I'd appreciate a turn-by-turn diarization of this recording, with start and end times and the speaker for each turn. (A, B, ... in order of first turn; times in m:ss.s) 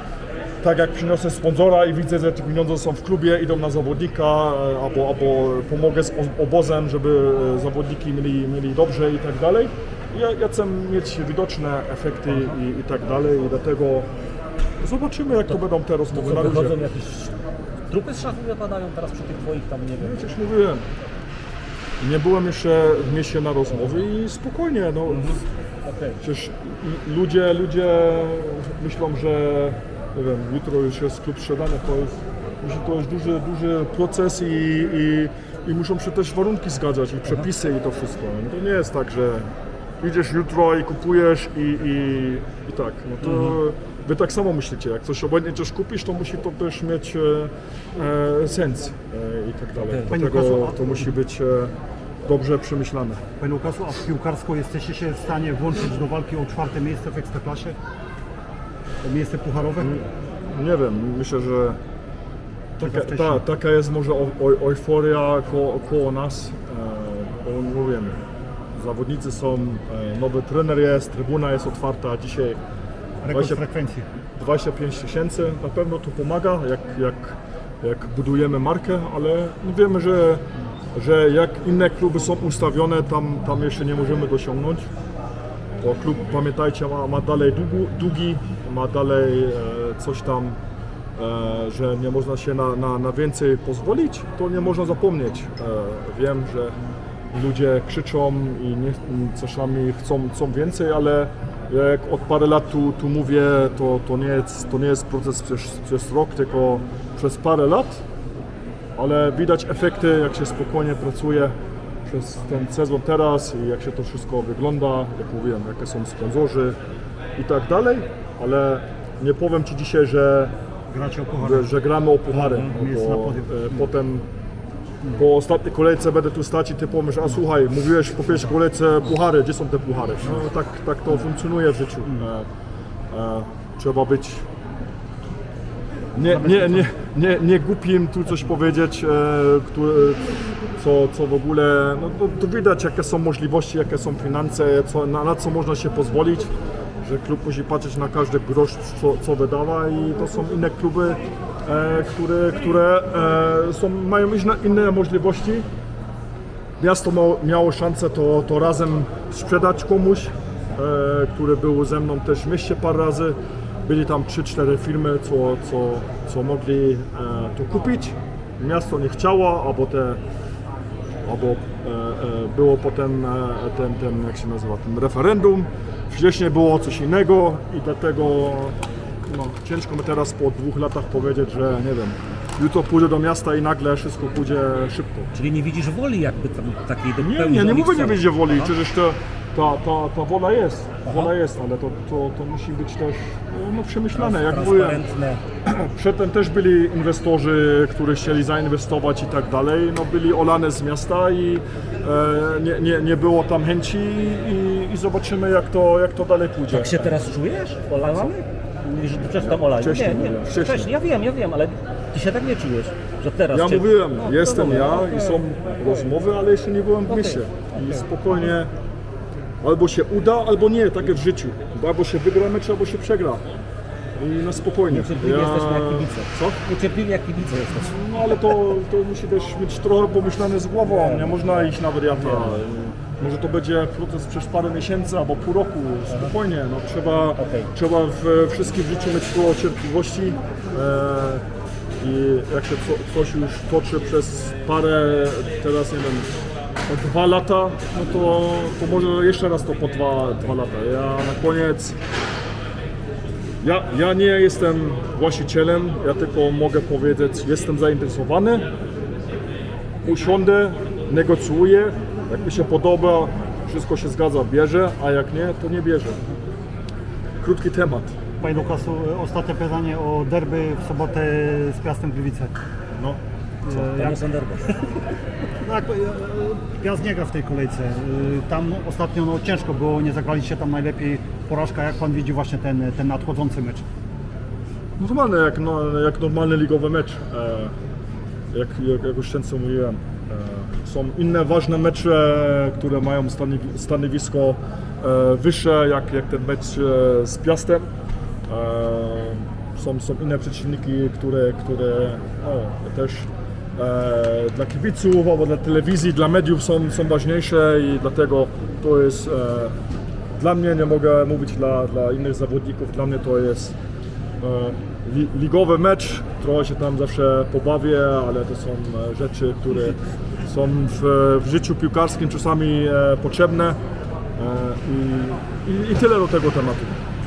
0:00.6-0:14.1 A
0:14.8-0:16.8 A
0:16.1-0:17.3 B
0:17.9-0:20.2 B
0:20.0-0:20.9 A
0:22.0-0:25.4 A
0:25.1-0:26.2 B
0:26.2-0:53.2 A
0:43.2-0:43.6 B
0:49.8-0:50.1 B
0:50.1-0:51.0 C
0:53.4-0:57.8 C
0:59.0-1:00.0 C
0:59.8-1:01.8 A
1:02.8-1:08.2 A
1:02.8-1:03.4 C
1:08.8-1:12.6 A
1:13.2-1:14.1 C
1:13.3-1:13.6 A
1:14.4-1:24.9 A
1:25.8-1:30.6 A
1:31.2-1:36.8 A
1:37.3-1:48.0 A
1:49.0-1:51.6 A
1:52.1-1:56.8 A
1:57.4-2:00.5 A
2:00.9-2:01.7 C
2:01.4-2:04.3 A
2:02.3-2:03.9 C
2:05.1-2:12.5 A
2:13.1-2:14.5 A
2:16.1-2:35.7 A
2:16.3-2:16.9 C
2:36.8-2:50.2 A
2:51.3-3:05.3 A
3:05.3-3:08.7 B
3:07.2-3:15.0 A
3:11.1-3:11.3 B
3:14.1-3:15.4 B
3:15.6-3:27.2 A
3:26.7-3:35.4 B
3:29.4-3:30.9 A
3:33.5-3:38.7 A
3:37.1-3:38.0 B
3:39.6-3:43.4 A
3:44.2-3:46.6 A
3:44.9-3:48.7 B
3:47.7-4:01.4 A
3:50.8-3:52.6 B
3:57.4-3:57.7 B
4:02.0-4:06.3 A
4:06.9-4:12.0 A
4:13.6-4:18.7 A
4:20.0-4:26.2 A
4:27.4-4:28.1 A
4:28.4-4:32.6 C
4:33.0-4:33.9 A
4:33.7-4:34.9 B
4:33.8-4:34.2 C
4:35.6-4:43.8 C
4:45.0-4:47.8 A
4:48.5-4:57.9 A
4:58.5-5:09.8 A
5:10.4-5:13.8 A
5:14.4-5:23.8 A
5:24.4-5:27.0 A